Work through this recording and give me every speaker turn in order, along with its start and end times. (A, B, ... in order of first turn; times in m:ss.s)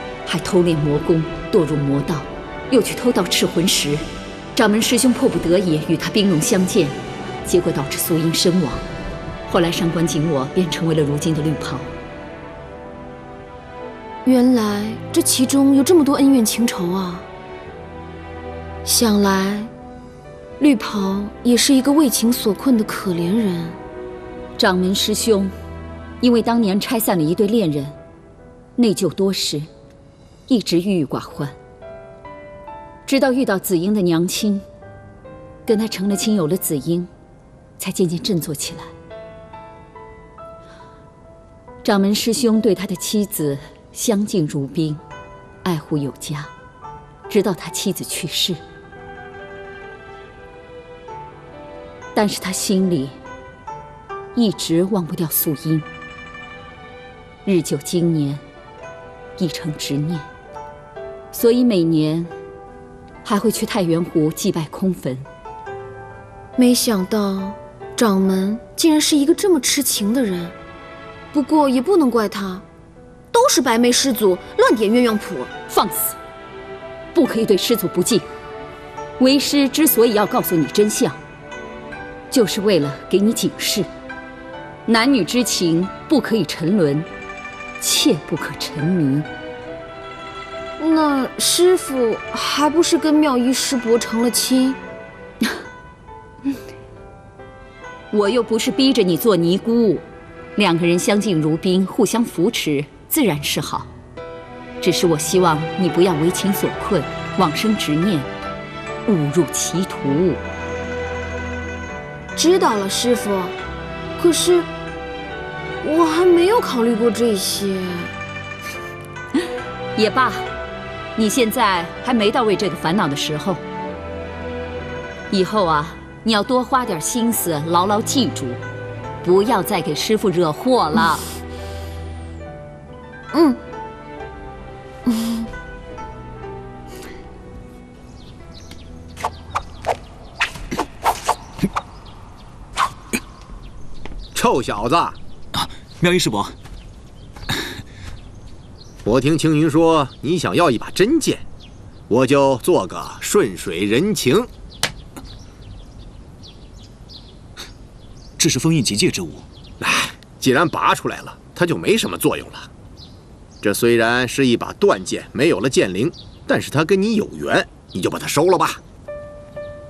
0:00.2-0:04.0 A
0:04.5-0:08.8 A
0:09.5-0:11.9 A
0:14.2-0:17.3 B
0:18.8-0:19.7 B
0:20.6-0:23.8 B
0:24.6-0:25.5 A
0:26.2-0:27.9 A
0:28.8-0:29.7 A
0:30.5-0:31.5 A
0:33.0-0:34.6 A
0:35.6-0:37.1 A
0:37.8-0:38.9 A
0:41.8-0:45.0 A
0:45.6-0:46.5 A
0:47.3-0:48.6 A
0:52.1-0:53.2 A
0:54.3-0:55.8 A
0:57.4-0:58.4 A
0:59.4-1:00.2 A
1:01.3-1:02.3 A
1:03.2-1:05.2 A
1:06.6-1:10.5 B
1:11.3-1:12.6 B
1:13.3-1:15.5 B
1:15.7-1:16.2 A
1:17.1-1:18.2 A
1:19.2-1:21.2 A
1:22.3-1:23.9 A
1:24.9-1:27.1 A
1:27.8-1:29.3 A
1:30.8-1:34.8 B
1:38.1-1:40.0 A
1:40.6-1:43.9 A
1:44.8-1:48.3 A
1:49.0-1:50.4 A
1:52.4-1:53.5 B
1:54.2-1:54.7 B
1:55.8-1:58.1 B
2:00.0-2:00.4 A
2:01.2-2:03.6 A
2:05.3-2:08.6 A
2:09.2-2:11.2 A
2:13.3-2:13.6 B
2:15.1-2:15.5 B
2:24.3-2:25.2 C
2:25.6-2:26.5 D
2:29.0-2:31.4 C
2:32.1-2:34.5 C
2:38.4-2:39.4 D
2:39.8-2:42.7 C
2:43.6-2:48.8 C